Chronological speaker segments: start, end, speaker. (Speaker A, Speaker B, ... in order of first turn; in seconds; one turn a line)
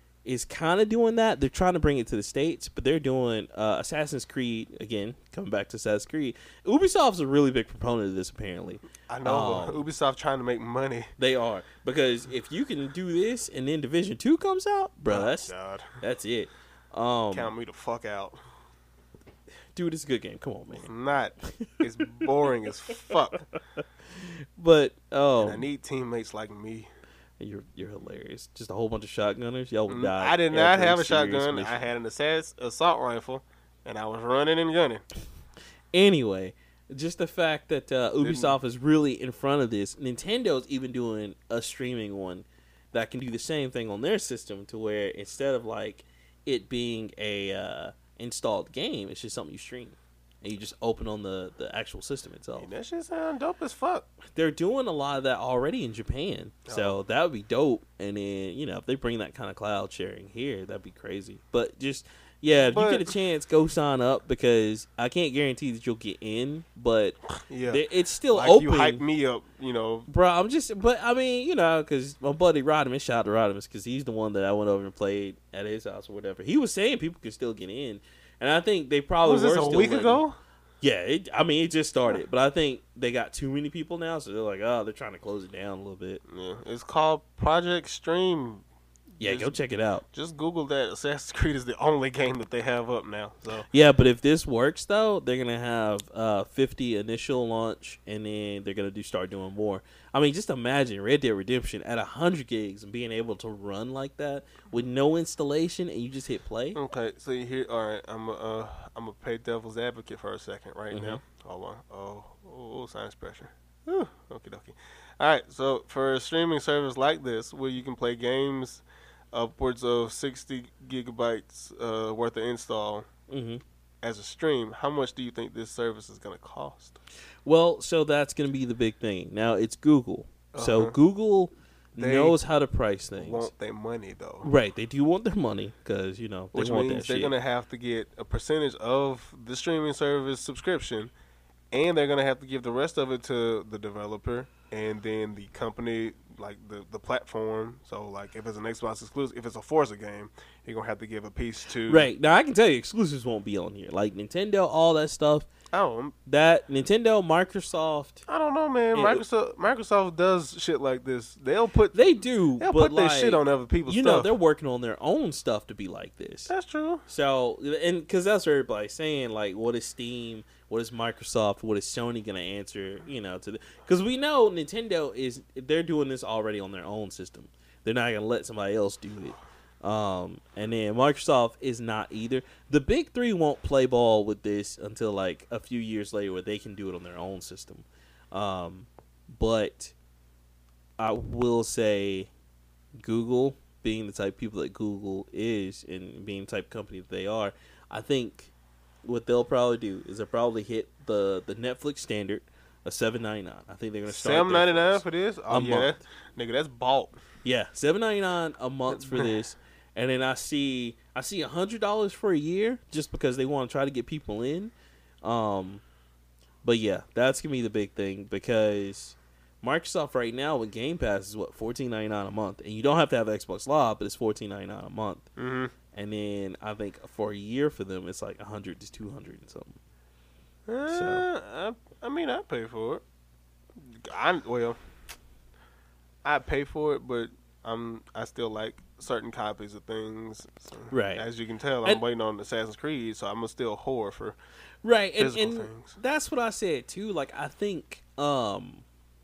Speaker A: 0.2-9.9
Speaker B: 9.1-11.1
Speaker A: 11.2-17.5
Speaker B: 15.1-16.0
Speaker B: 17.3-18.4
Speaker A: 19.8-20.9
Speaker B: 20.8-23.5
Speaker A: 21.5-22.3
Speaker A: 24.1-25.7
Speaker B: 25.4-26.9
Speaker A: 27.4-31.9
Speaker B: 29.9-35.0
Speaker A: 35.9-52.7
Speaker B: 38.2-38.6
Speaker B: 52.6-54.1
Speaker A: 54.3-69.0
Speaker B: 56.7-57.0
Speaker B: 62.6-63.1
Speaker B: 67.5-70.1
Speaker A: 70.1-80.2
Speaker B: 79.2-80.4
Speaker A: 80.8-86.2
Speaker B: 86.3-88.7
Speaker B: 89.2-89.6
Speaker A: 89.2-90.0
Speaker B: 90.1-93.7
Speaker A: 93.7-106.8
Speaker B: 106.8-123.1
Speaker A: 110.9-111.2
Speaker A: 123.3-123.6
Speaker B: 124.0-127.0
Speaker A: 127.5-133.5
Speaker B: 130.5-131.0
Speaker B: 132.0-132.4
Speaker B: 133.2-134.5
Speaker A: 134.4-137.3
Speaker B: 136.5-141.1
Speaker B: 141.7-152.1
Speaker A: 151.9-155.5
Speaker B: 155.7-156.2
Speaker A: 156.3-158.2
Speaker B: 158.3-164.3
Speaker A: 158.9-159.2
Speaker A: 161.9-166.5
Speaker B: 166.5-167.1
Speaker A: 167.1-189.9
Speaker A: 191.0-192.3
Speaker A: 193.0-198.5
Speaker A: 199.0-206.0
Speaker B: 204.1-207.2
Speaker A: 207.4-214.7
Speaker B: 208.9-209.3
Speaker A: 215.2-215.8
Speaker A: 216.6-225.3
Speaker B: 225.4-225.7
Speaker A: 225.9-229.8
Speaker B: 230.7-233.0
Speaker A: 230.9-231.3
Speaker B: 233.8-234.8
Speaker B: 236.2-244.4
Speaker A: 240.9-241.2
Speaker A: 244.8-248.8
Speaker B: 245.2-246.0